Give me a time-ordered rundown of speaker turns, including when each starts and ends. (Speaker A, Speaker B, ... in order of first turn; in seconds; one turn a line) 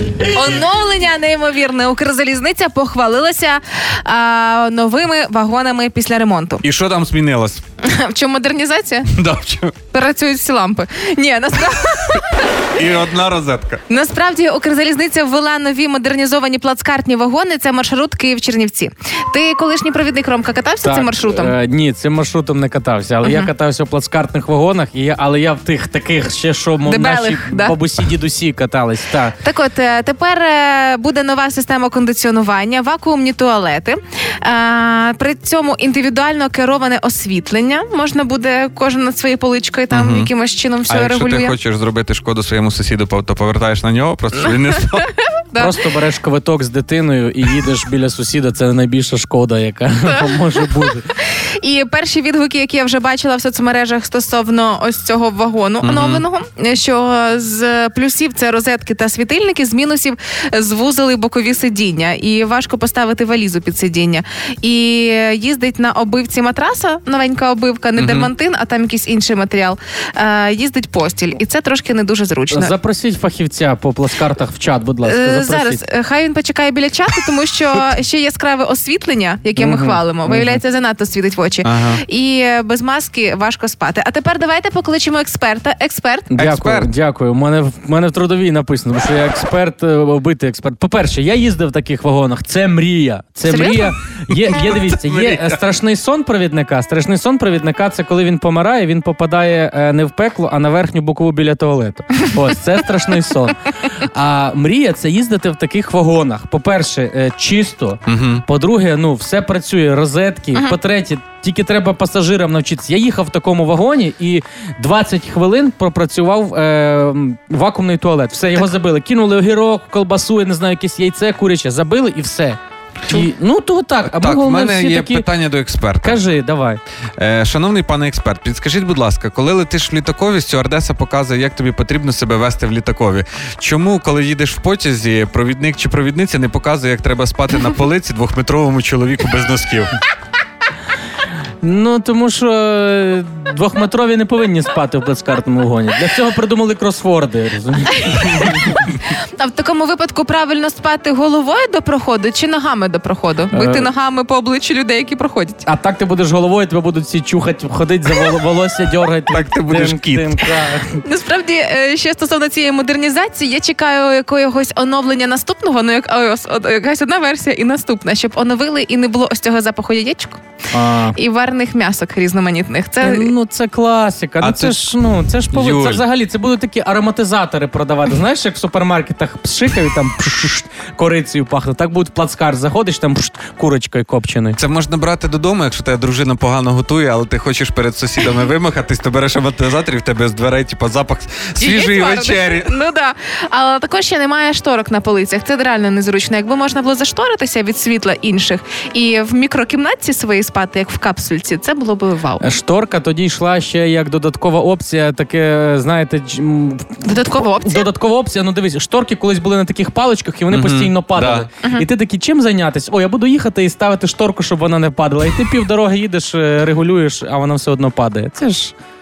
Speaker A: 0.3-6.6
Speaker B: 6.6-7.6
Speaker A: 7.8-9.1
Speaker B: 9.1-9.8
Speaker A: 9.9-12.5
Speaker B: 12.8-13.8
Speaker A: 13.9-21.6
Speaker C: 20.8-29.3
Speaker A: 23.2-23.5
Speaker A: 26.8-27.8
Speaker A: 29.4-41.6
Speaker B: 39.9-40.3
Speaker B: 40.9-45.1
Speaker A: 45.0-45.8
Speaker C: 45.6-51.1
Speaker A: 51.6-72.8
Speaker B: 55.8-56.2
Speaker B: 68.0-68.3
Speaker C: 72.5-75.8
Speaker A: 75.0-86.3
Speaker C: 79.6-80.6
Speaker B: 81.6-82.0
Speaker C: 86.3-125.3
Speaker B: 86.4-86.9
Speaker A: 93.5-93.9
Speaker B: 94.4-95.6
Speaker B: 108.1-108.5
Speaker B: 124.0-126.2
Speaker C: 126.0-126.8
Speaker B: 127.2-140.0
Speaker C: 141.6-148.9
Speaker A: 148.8-155.7
Speaker C: 153.5-153.9
Speaker C: 155.7-161.0
Speaker B: 159.3-160.4
Speaker A: 161.0-170.4
Speaker C: 170.7-171.2
Speaker A: 171.2-173.3
Speaker C: 173.0-184.6
Speaker B: 174.4-175.0
Speaker B: 175.5-176.0
Speaker B: 184.6-192.7
Speaker A: 191.6-202.5
Speaker C: 202.4-218.7
Speaker A: 207.0-207.9
Speaker B: 210.5-211.5